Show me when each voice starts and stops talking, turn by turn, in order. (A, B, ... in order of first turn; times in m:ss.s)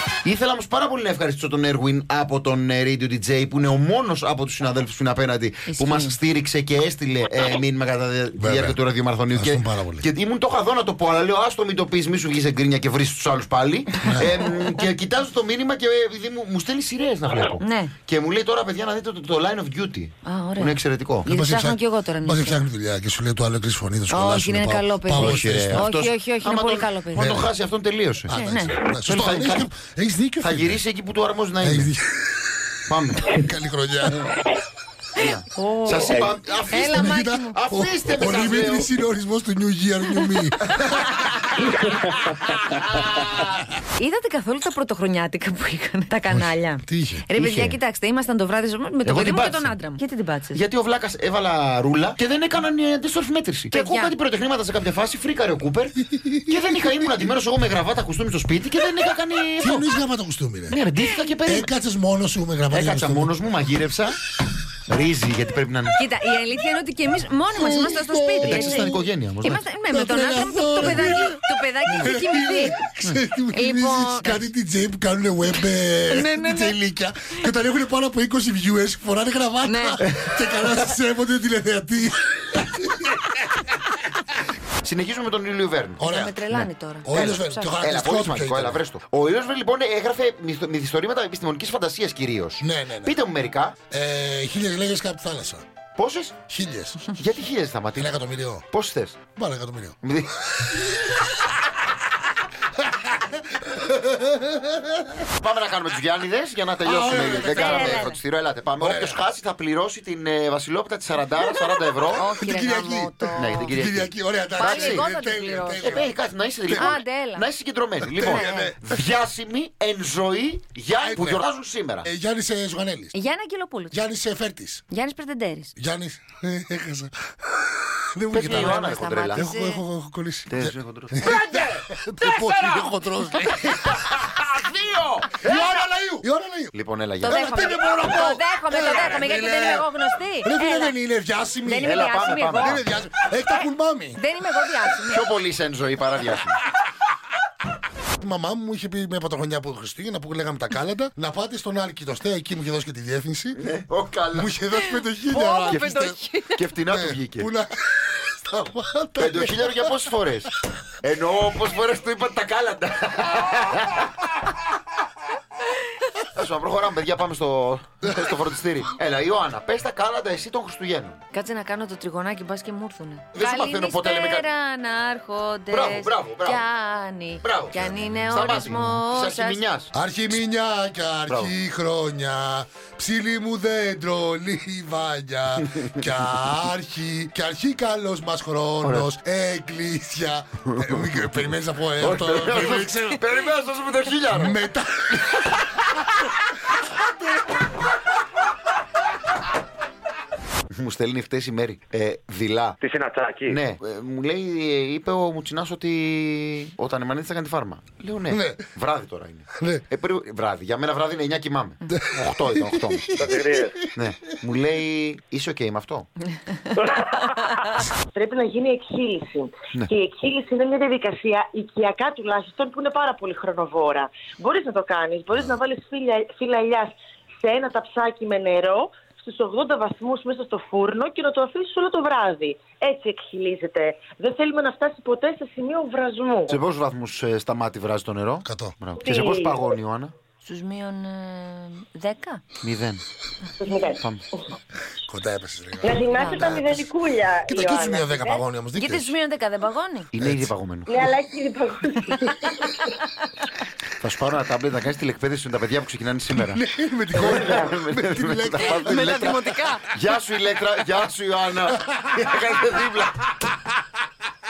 0:00.2-0:21.3 A
0:05.7-0:06.2 B
0:08.4-0:08.8 C
0:09.3-0:10.0 C
0:14.0-0:14.3 C
0:17.6-0:17.9 B
0:20.2-0:22.6 B
0:21.2-0:25.9 C
0:24.1-0:27.4 B
0:25.2-0:28.3 A
0:27.2-0:27.5 C
0:28.2-0:30.8 C
0:28.3-0:28.8 B
0:29.0-0:29.6 A
0:30.4-0:31.9 A
0:31.6-0:32.7 C
0:32.9-0:33.4 A
0:33.2-0:34.4 C
0:35.2-0:38.9 A
0:35.5-0:37.5 B
0:36.8-0:41.2 C
0:41.5-0:41.9 A
0:41.7-0:42.6 D
0:42.9-0:43.4 A
0:44.0-0:50.6 B
0:46.3-0:47.2 C
0:47.3-0:47.8 A
0:49.0-0:49.7 A
0:50.5-0:59.9 A
0:53.7-0:54.1 B
0:56.1-0:56.5 C
0:59.6-1:00.8 C
1:00.7-1:01.7 A
1:01.0-1:01.3 B
1:01.4-1:03.3 C
1:02.7-1:04.2 A
1:04.9-1:06.0 A
1:06.0-1:12.7 B
1:07.5-1:23.1 C
1:08.4-1:09.6 A
1:10.8-1:11.2 A
1:13.5-1:14.5 B
1:16.1-1:16.8 B
1:19.6-1:20.0 B
1:20.0-1:20.4 A
1:24.8-1:26.0 A
1:26.0-1:28.8 C
1:26.0-1:27.7 B
1:27.1-1:33.8 A
1:32.6-1:33.2 C
1:33.9-1:35.6 C
1:36.0-1:36.4 A
1:36.5-1:37.1 C
1:37.1-1:38.1 A
1:38.0-1:38.7 C
1:38.7-1:39.2 A
1:39.4-1:40.0 C
1:40.0-1:40.3 A
1:43.0-1:45.2 C
1:45.4-1:52.2 A
1:46.8-1:48.1 C
1:47.3-1:48.2 B
1:48.8-1:49.2 C
1:52.2-1:53.8 B
1:52.2-1:57.0 C
1:53.4-1:55.0 A
1:54.6-1:56.1 B
1:55.8-2:02.1 A
1:56.7-1:57.4 B
1:58.0-1:59.1 C
1:58.2-1:58.8 B
2:01.0-2:01.4 C
2:02.0-2:03.1 C
2:03.1-2:04.0 B
2:03.9-2:04.8 C
2:04.9-2:05.7 B
2:05.8-2:14.4 C
2:08.3-2:09.4 A
2:08.4-2:09.8 B
2:10.5-2:12.9 A
2:13.6-2:15.8 A
2:15.4-2:19.9 C
2:16.7-2:17.6 A
2:17.2-2:21.0 B
2:18.9-2:19.2 A
2:20.4-2:22.0 C
2:21.6-2:22.8 B
2:21.8-2:22.8 A
2:22.6-2:24.2 C
2:24.1-2:25.2 B
2:25.1-2:26.6 A
2:28.2-2:33.6 C
2:33.6-2:34.5 A
2:34.3-2:36.2 C
2:34.7-2:36.6 B
2:36.5-2:37.5 A
2:36.9-2:40.0 C
2:39.2-2:40.5 A
2:41.0-2:44.1 A
2:46.3-2:51.2 A
2:48.0-2:48.3 C
2:51.3-2:59.6 B
2:53.3-2:54.4 A
2:55.7-2:56.6 A
2:57.4-3:00.4 A
2:59.9-3:13.2 C
3:01.3-3:01.5 A
3:08.8-3:09.1 A
3:10.7-3:14.6 A
3:14.3-3:15.1 C
3:20.7-3:22.8 A
3:22.8-3:23.5 D
3:23.5-3:33.3 A
3:28.3-3:28.7 C
3:29.6-3:29.8 C
3:31.9-3:33.8 C
3:33.3-3:33.7 D
3:33.9-3:36.1 A
3:38.1-3:56.6 E
3:56.5-4:00.1 A
3:58.4-3:58.8 C
3:59.0-3:59.7 E
4:00.4-4:02.4 B
4:02.6-4:03.0 A
4:03.6-4:04.4 E
4:04.0-4:04.2 A
4:05.1-4:06.9 C
4:05.8-4:08.4 E
4:06.1-4:06.5 B
4:07.5-4:09.1 C
4:08.8-4:10.1 B
4:10.1-4:11.1 A
4:10.2-4:10.5 C
4:10.9-4:12.2 E
4:14.0-4:16.6 A
4:16.3-4:19.8 C
4:17.1-4:23.3 A
4:17.2-4:17.7 E
4:18.7-4:19.8 B
4:21.7-4:22.0 C